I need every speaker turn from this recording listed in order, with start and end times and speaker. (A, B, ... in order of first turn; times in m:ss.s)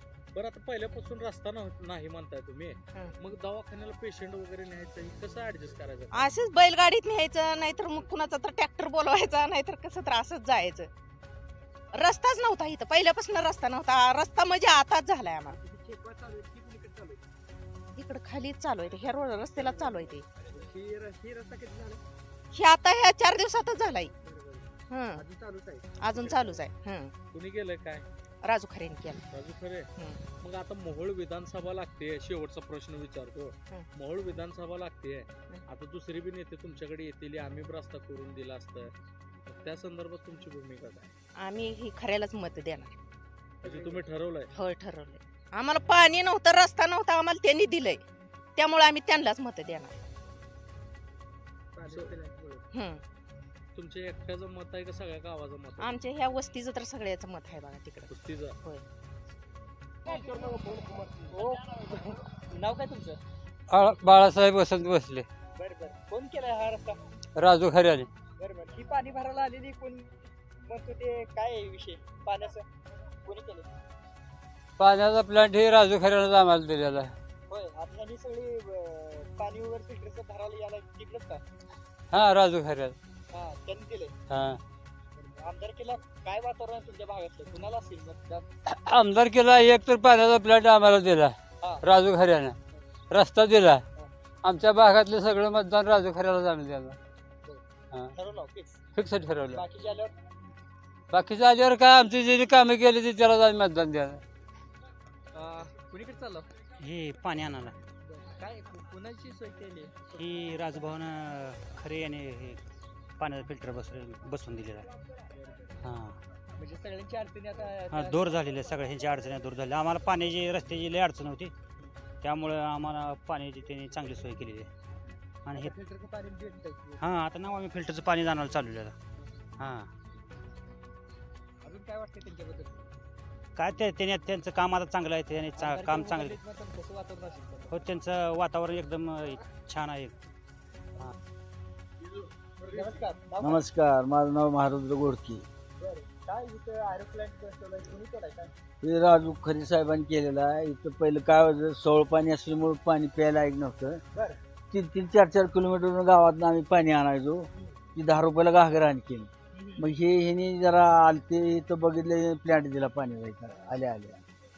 0:00.4-0:06.2 A
0:06.1-0:10.9 B
0:11.9-0:15.6 B
0:15.6-0:17.3 C
0:18.0-0:20.3 B
0:18.8-0:22.0 C
0:22.5-0:24.1 B
0:24.1-0:26.6 C
0:24.9-0:25.2 B
0:26.0-0:27.1 B
0:27.3-0:28.1 A
0:28.4-0:29.2 B
0:29.3-0:29.9 A
0:30.0-0:30.3 B
0:30.4-0:38.9 A
0:39.5-0:41.1 A
0:41.4-0:43.0 B
0:43.6-0:44.0 C
0:43.6-0:44.5 A
0:44.5-0:48.0 B
0:48.6-0:50.0 B
0:51.7-0:52.5 C
0:51.9-0:52.2 A
0:52.7-0:53.0 B
0:53.8-0:55.9 A
0:55.8-0:58.1 B
0:58.1-0:58.6 A
1:01.3-1:03.2 C
1:03.7-1:05.3 D
1:05.6-1:07.0 C
1:07.4-1:08.1 D
1:08.4-1:10.1 C
1:10.6-1:12.7 C
1:13.2-1:13.7 C
1:14.8-1:17.1 D
1:17.5-1:21.4 C
1:22.1-1:23.0 D
1:23.3-1:24.1 C
1:24.3-1:24.6 D
1:25.2-1:28.5 C
1:28.8-1:32.6 D
1:31.6-1:31.9 C
1:33.1-1:33.8 D
1:34.4-1:37.0 D
1:38.1-1:38.8 C
1:38.9-1:39.6 D
1:39.5-1:40.1 C
1:41.1-1:44.2 D
1:45.3-1:46.5 C
1:46.8-1:47.8 E
1:48.1-1:50.2 C
1:50.1-1:52.6 E
1:53.2-1:54.9 E
1:55.4-1:55.8 C
1:55.8-1:56.2 E
1:56.6-1:58.4 C
1:57.9-2:01.5 E
2:02.2-2:04.7 E
2:05.5-2:05.7 E
2:05.5-2:07.0 C
2:07.0-2:09.0 E
2:09.6-2:09.9 E
2:11.6-2:12.8 C
2:13.6-2:16.4 E
2:15.6-2:17.8 C
2:17.7-2:20.1 E
2:22.6-2:23.6 C
2:23.4-2:25.5 F
2:25.8-2:28.5 C
2:28.8-2:34.0 F
2:34.1-2:34.4 C
2:34.7-2:44.2 F
2:39.5-2:39.8 C